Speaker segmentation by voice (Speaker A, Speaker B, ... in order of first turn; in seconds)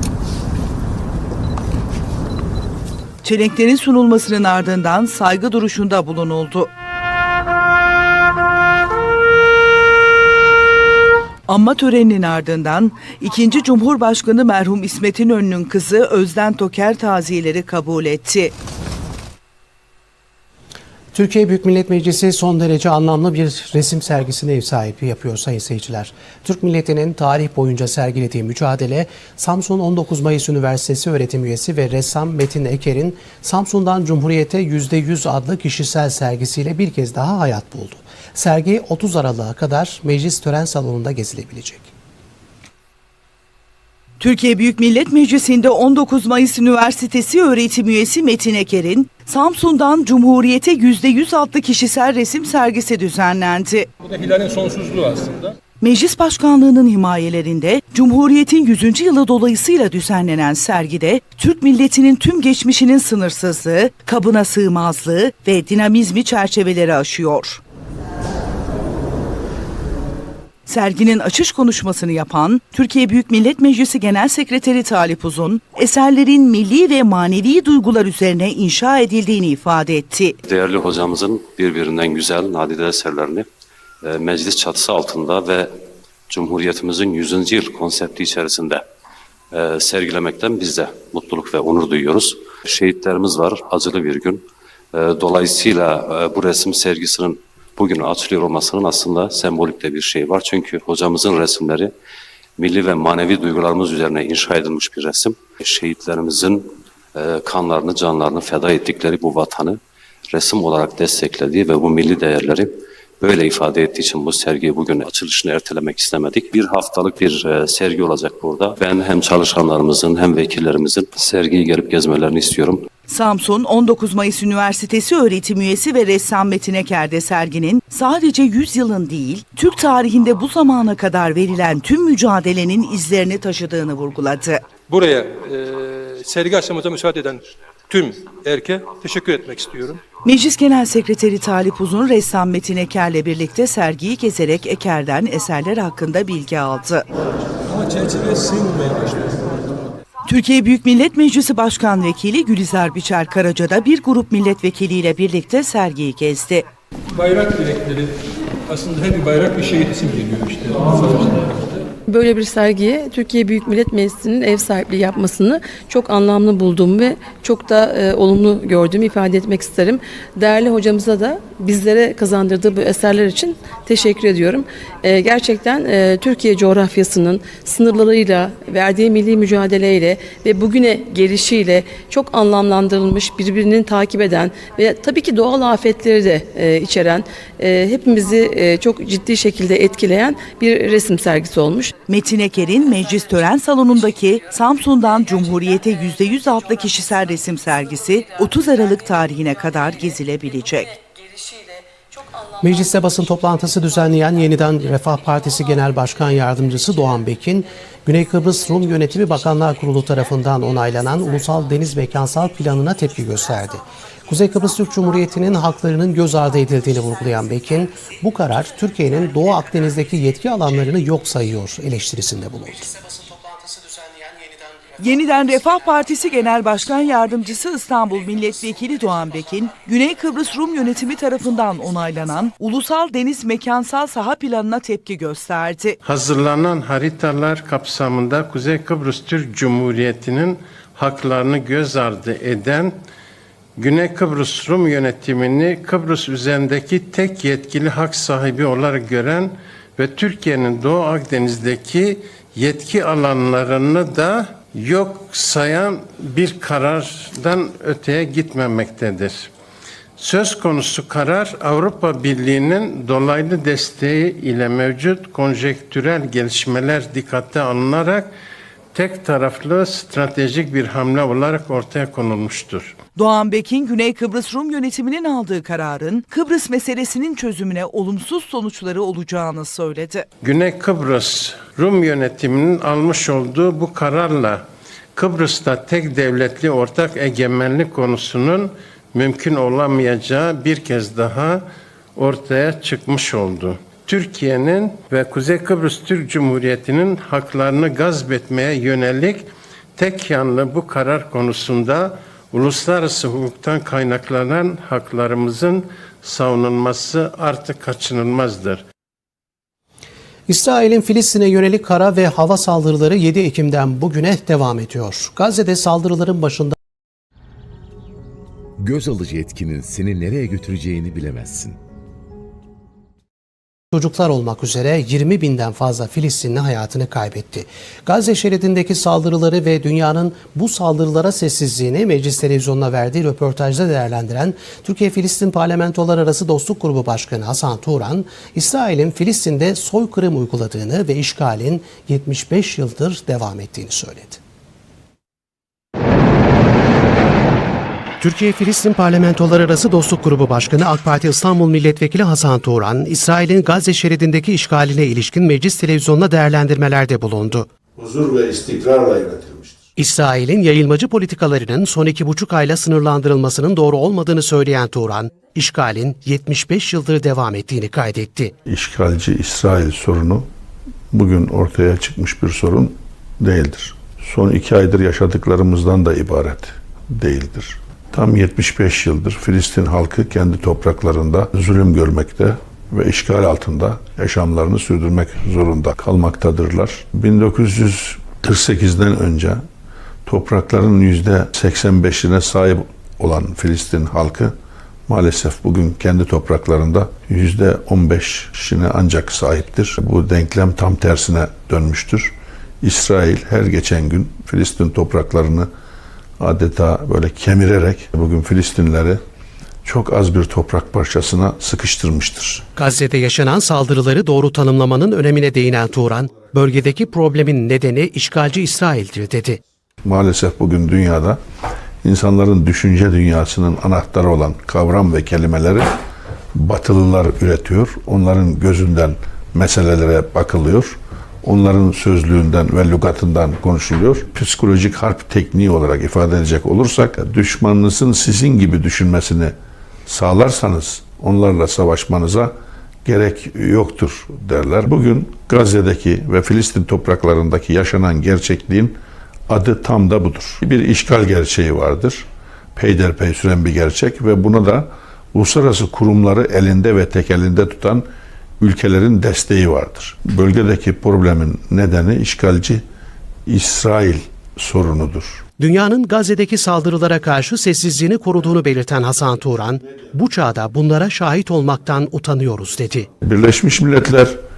Speaker A: 3.2-6.7, 11.5-18.5, 44.2-53.9, 55.8-67.6, 70.7-80.3, 123.1-134.6, 140.2-147.0, 150.2-156.6, 192.1-200.9, 225.0-236.0, 273.2-280.3
Speaker B: 21.1-41.9, 202.6-222.9, 310.5-316.8, 323.9-344.4, 348.2-357.7, 360.0-368.5, 412.8-419.6, 465.6-473.1
Speaker C: 54.0-55.6, 134.9-140.0, 147.7-149.5, 157.1-161.9
Speaker D: 80.4-83.5, 84.0-85.7, 86.3-88.8, 89.5-94.4, 94.9-101.9, 102.6-109.8, 110.3-122.8
Speaker E: 162.1-191.9
Speaker F: 236.1-242.9, 243.8-259.5, 260.2-268.3, 268.9-272.9, 280.4-284.6, 285.1-291.6, 292.1-308.8
Speaker G: 318.8-321.8
Speaker H: 357.9-359.8, 368.6-370.5, 371.1-389.6, 390.2-394.5, 395.1-405.7, 406.4-409.2, 409.8-412.6, 420.0-421.4, 422.0-425.9, 426.5-439.5, 440.1-442.5, 443.1-449.0, 449.5-452.2, 452.8-458.1, 458.6-462.8, 463.5-465.4, 473.2-474.4